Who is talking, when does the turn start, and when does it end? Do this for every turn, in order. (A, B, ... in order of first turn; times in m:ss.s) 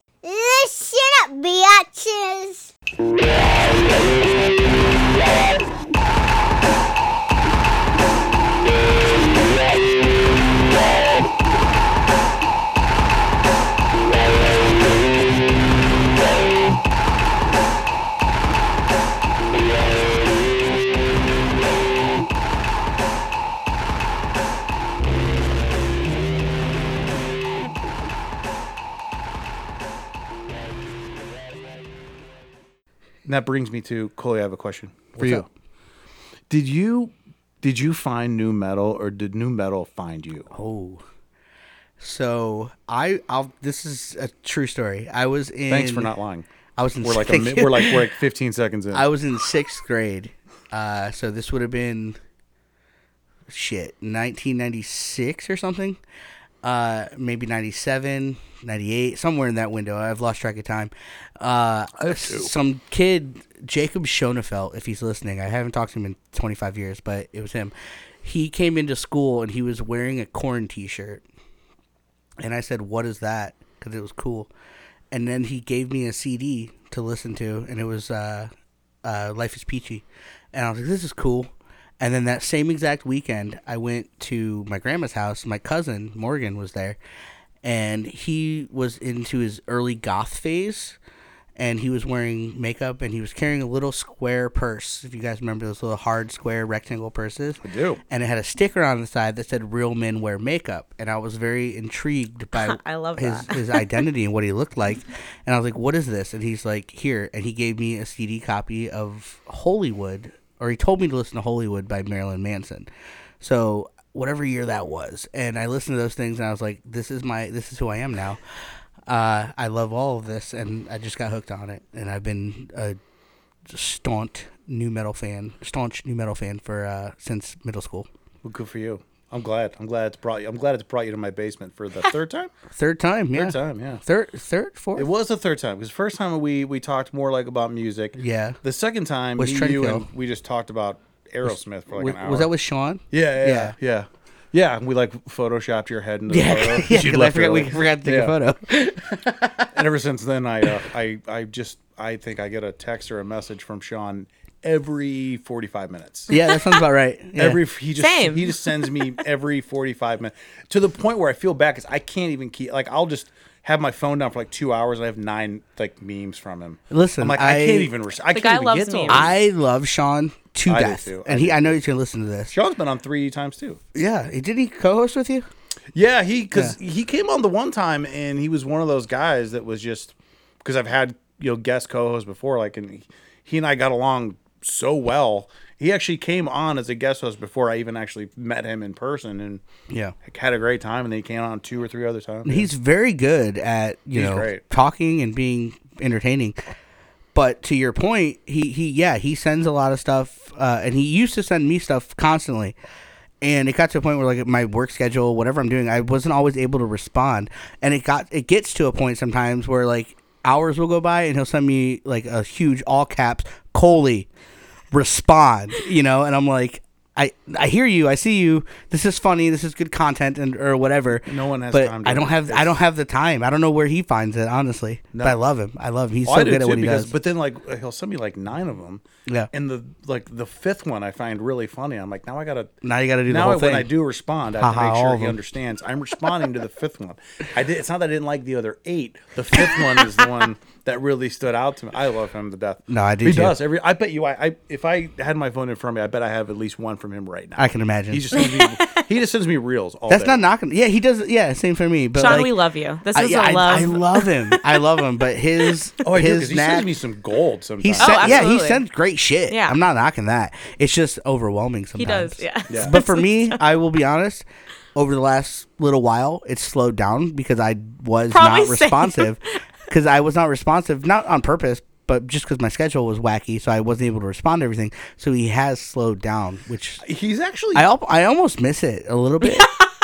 0:00.2-0:02.7 A
0:33.2-0:35.5 B
0:35.2-0:35.4 C
0:36.5-0:40.5 B
0:40.5-0:41.0 C
0:42.0-0:46.1 C
0:45.7-0:46.4 B
0:46.8-0:48.0 C
0:47.0-0:49.1 B
0:48.9-0:52.2 C
0:53.5-0:56.0 C
0:56.6-1:11.2 C
1:02.0-1:02.5 B
1:12.4-1:14.5 C
1:15.1-1:18.5 C
1:19.0-1:27.0 C
1:27.6-1:31.0 C
1:31.6-1:52.9 C
1:37.6-1:38.0 B
1:42.5-1:44.0 D
1:53.4-1:58.4 C
1:59.1-2:03.0 C
2:03.7-2:08.1 C
2:08.4-2:12.5 B
2:12.7-2:15.1 C
2:13.3-2:14.0 B
2:14.9-2:22.5 B
2:18.2-2:18.6 C
2:19.4-2:20.0 C
2:21.4-2:23.7 C
2:23.1-2:28.3 B
2:26.3-2:29.7 C
2:29.7-2:36.3 B
2:36.3-2:36.8 D
2:36.3-2:37.6 C
2:37.4-2:49.3 B
2:38.0-2:38.6 D
2:46.9-2:47.9 C
2:48.3-2:49.2 D
2:49.1-2:52.5 C
2:50.6-2:51.8 B
2:52.5-2:53.8 B
2:53.9-2:55.5 C
2:55.9-3:09.6 B
3:09.9-3:10.1 C
3:10.2-3:12.7 B
3:12.4-3:16.6 C
3:14.1-3:14.6 B
3:17.3-3:22.8 C
3:23.4-3:34.3 C
3:34.9-3:47.1 C
3:41.2-3:42.8 B
3:46.2-3:52.7 B
3:52.8-3:53.9 C
3:53.3-4:10.4 B
3:54.6-3:55.4 C
4:02.9-4:03.6 C
4:07.6-4:08.6 C
4:08.4-4:09.0 D
4:10.1-4:12.5 C
4:12.2-4:14.9 D
4:13.1-4:16.9 C
4:16.0-4:18.5 B
4:17.8-4:37.0 C
4:18.0-4:18.8 D
4:19.5-4:19.8 D
4:22.0-4:23.6 D
4:22.7-4:23.0 B
4:28.3-4:29.4 D
4:37.0-4:37.9 B
4:37.7-4:39.7 C
4:39.4-4:39.9 D